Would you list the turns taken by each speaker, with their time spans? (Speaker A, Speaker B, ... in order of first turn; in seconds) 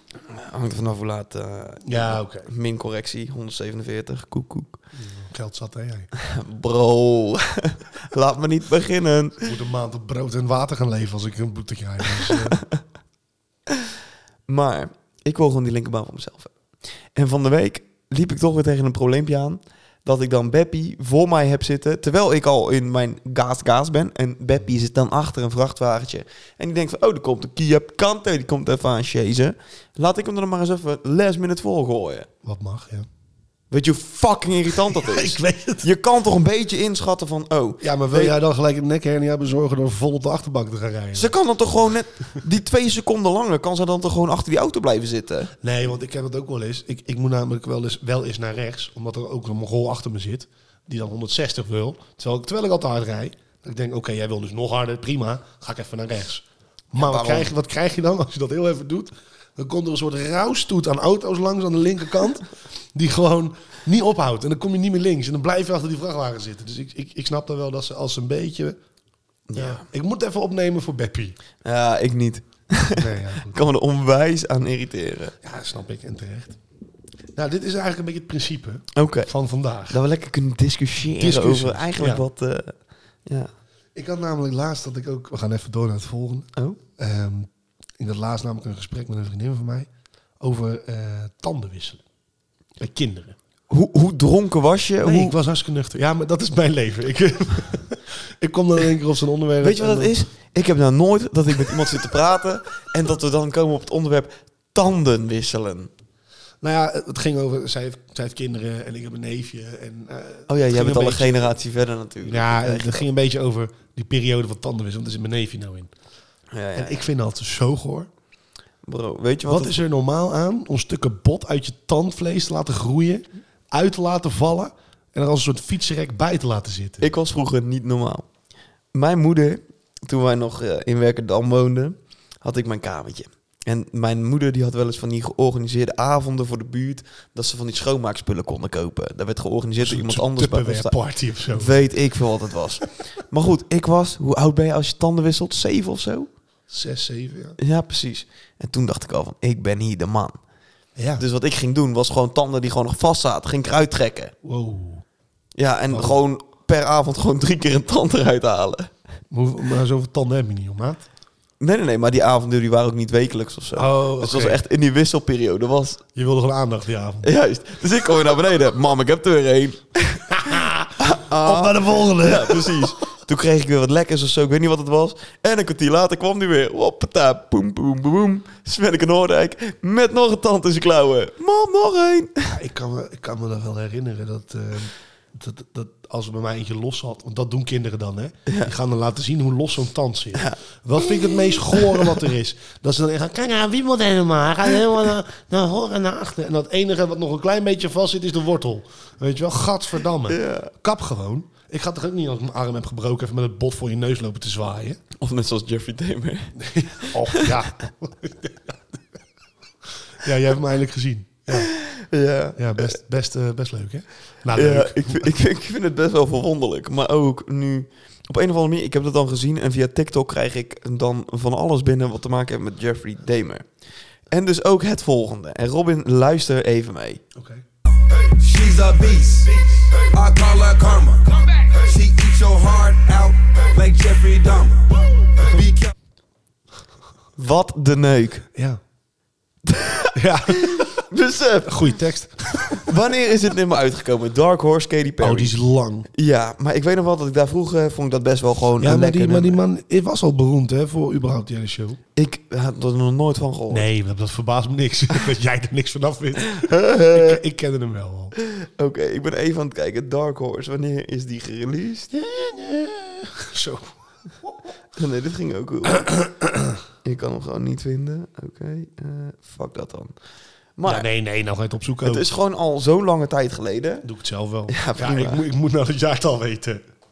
Speaker A: 0.2-4.8, 6.2-9.5, 12.2-12.8, 14.5-16.5, 17.1-32.3, 33.7-38.4, 41.1-45.5, 57.0-57.5, 69.5-69.8, 71.6-75.3, 78.9-79.3, 79.9-83.5, 93.7-95.4, 99.6-105.9, 110.5-113.1, 116.5-117.1, 118.8-119.8, 127.0-128.3, 128.9-141.0, 141.5-146.3, 147.6-150.4, 151.2-154.3, 155.5-158.9, 161.6-166.0, 167.2-170.3, 171.0-182.5, 188.5-188.7, 190.3-192.2, 200.3-200.7, 205.2-207.6, 211.5-212.9, 214.5-223.7, 224.3-227.2, 228.4-229.5, 230.1-234.8, 235.5-235.9, 237.4-238.4, 239.6-241.9, 242.8-245.5, 246.1-249.6, 252.2-253.9, 256.5-257.4, 258.4-262.1, 265.0-266.1, 267.0-270.1, 270.8-271.1, 272.0-274.1, 274.7-275.4
Speaker B: 1.9-2.5, 4.9-6.1, 9.4-12.6, 32.4-33.1, 34.8-35.9, 37.8-41.4, 45.6-68.8, 69.5-71.4, 72.9-73.6, 75.4-76.6, 77.4-80.0, 81.2-82.2, 83.9-89.9, 90.4-92.0, 92.8-93.4, 95.0-100.1, 106.6-111.5, 112.2-115.9, 116.8-118.1, 119.5-127.1, 139.8-141.8, 146.7-147.6, 151.0-151.2, 154.4-155.0, 155.9-156.2, 159.3-161.0, 163.8-164.6, 166.1-167.3, 170.3-173.1, 182.5-205.0, 206.6-208.9, 210.1-211.7, 212.6-215.3, 227.3-227.6, 238.5-238.8, 240.1-241.0, 241.6-242.9, 245.2-246.1, 248.8-252.0, 253.7-258.4, 262.1-264.6, 266.0-266.8, 270.9-272.3, 274.0-276.8
Speaker C: 228.6-232.5, 233.8-234.7